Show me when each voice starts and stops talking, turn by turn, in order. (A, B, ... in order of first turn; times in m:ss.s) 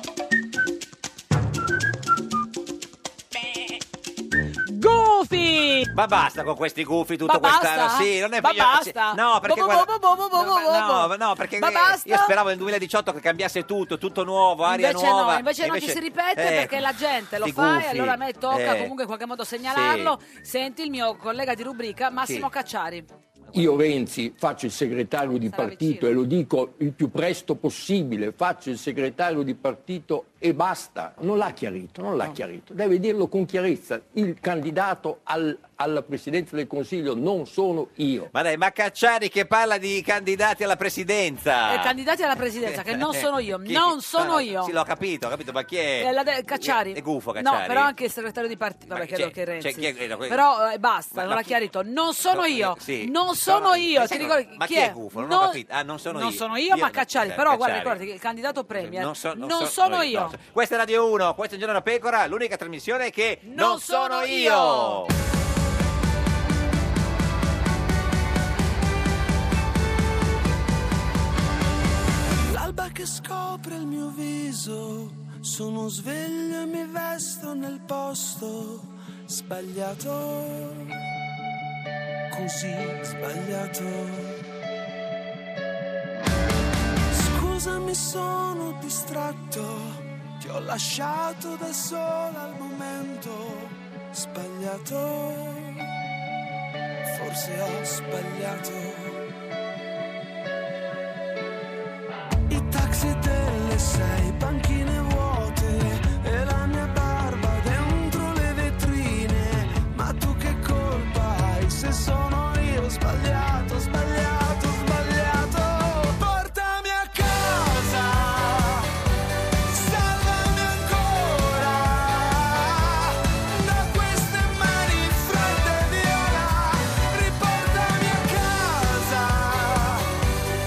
0:04.7-0:05.9 A
0:05.9-0:18.9 B
0:07.2-0:12.4 A
0:14.6-0:23.1 A
0:19.7-0:20.2 B
0:23.5-0:38.3 C
0:25.5-0:26.1 A
0:38.3-0:42.0 B
0:41.7-0:44.7 A
0:42.6-0:47.9 B
0:46.0-0:55.6 A
0:48.9-0:50.5 B
0:51.1-0:51.6 B
0:52.3-0:58.0 B
0:56.1-1:00.4 A
0:58.8-1:05.1 B
1:03.4-1:05.0 A
1:12.5-1:21.0 D
1:22.3-1:24.4 D
1:27.1-1:35.9 D
1:37.1-1:39.2 D
1:42.5-1:58.9 D
1:59.7-2:10.1 D